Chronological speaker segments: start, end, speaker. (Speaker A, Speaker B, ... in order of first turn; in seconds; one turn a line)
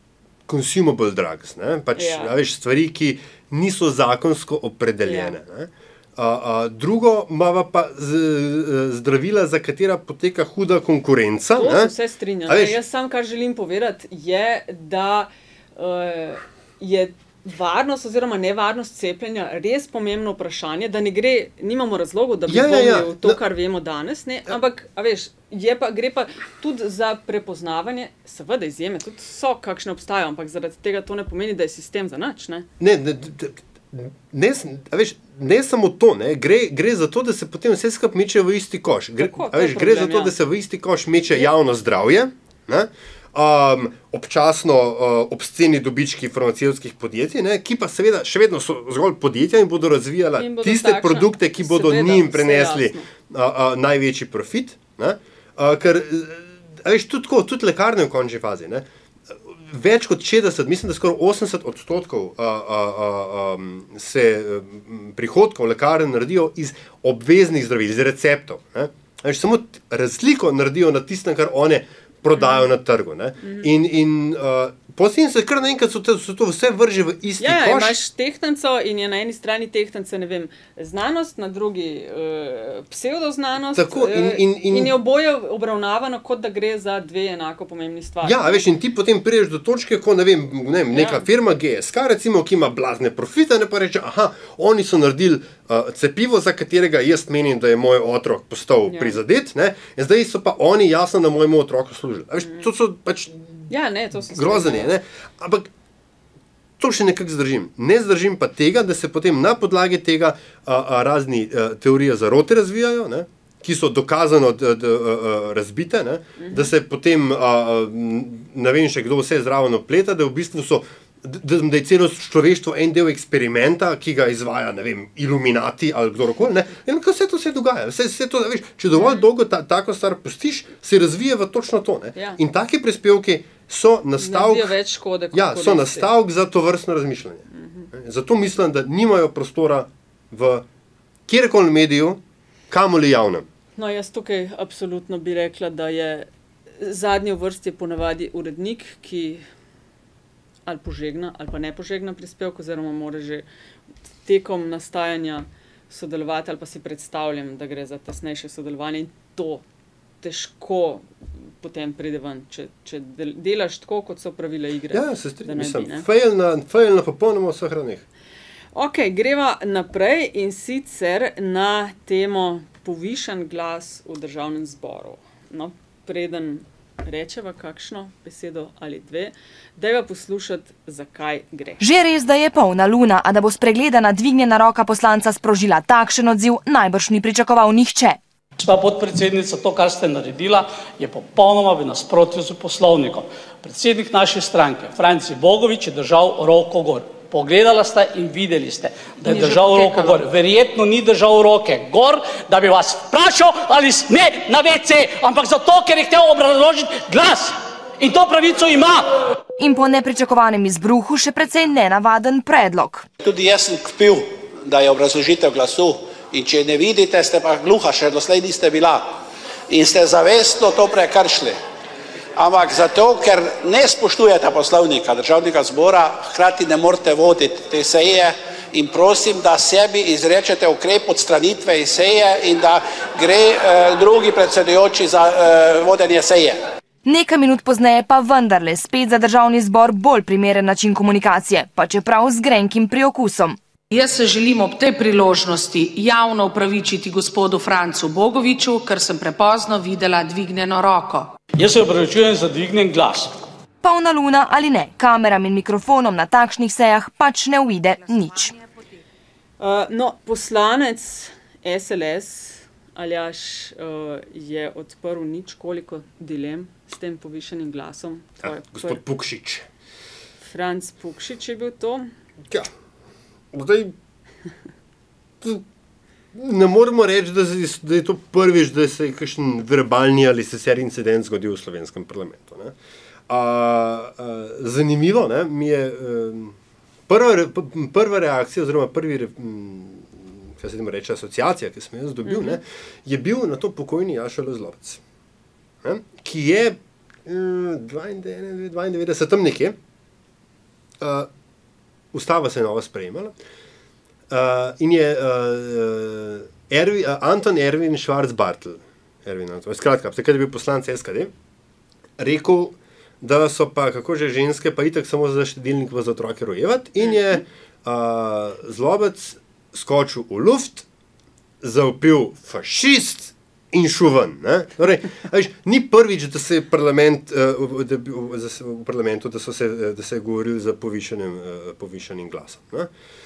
Speaker A: 0.5-11.9
Speaker B: 1.9-2.3
Speaker B: 5.0-5.3
Speaker B: 11.6-32.6
Speaker A: 12.5-12.8
Speaker A: 22.5-23.4
Speaker A: 32.8-78.0
Speaker B: 39.2-40.3
Speaker B: 50.4-53.1
Speaker B: 72.3-72.7
Speaker B: 77.4-88.6
Speaker A: 83.8-84.9
Speaker A: 88.2-103.7
Speaker B: 90.9-91.3
Speaker B: 98.9-99.2
Speaker B: 103.7-104.9
Speaker A: 104.3-105.7
Speaker A: 106.8-134.7
Speaker B: 116.4-116.7
Speaker B: 128.9-129.2
Speaker B: 134.2-136.1
Speaker A: 135.3-140.6
Speaker B: 137.5-137.9
Speaker A: 141.3-143.4
Speaker B: 143.8-146.3
Speaker B: 146.8-149.4
Speaker B: 150.7-153.4
Speaker B: 154.2-159.6
Speaker B: 160.2-161.1
Speaker B: 161.6-166.1
Speaker A: 164.9-168.0
Speaker B: 168.7-181.8
Speaker C: 181.8-188.2
Speaker D: 188.6-209.2
Speaker E: 199.2-200.2
Speaker C: 209.6-213.1
Speaker F: 213.2-221.6
Speaker F: 222.3-236.6
Speaker C: 237.0-243.6
Speaker E: 243.9-251.3
Speaker D: 251.6-253.3
Speaker C: 253.8-258.6
Speaker B: 259.6-269.0
Speaker A: 268.4-269.6
Speaker B: 270.4-272.1
Speaker A: 273.5-273.9
Speaker A: 276.3-282.7
Speaker A: 283.3-286.5
Speaker A: 287.1-295.0
Speaker B: 292.2-292.6
Speaker A: 295.8-299.8
Speaker A: 301.0-301.3
Speaker A: 302.1-303.3
Speaker A: 304.3-311.3
Speaker A: 312.2-320.9
Speaker A: 321.6-332.9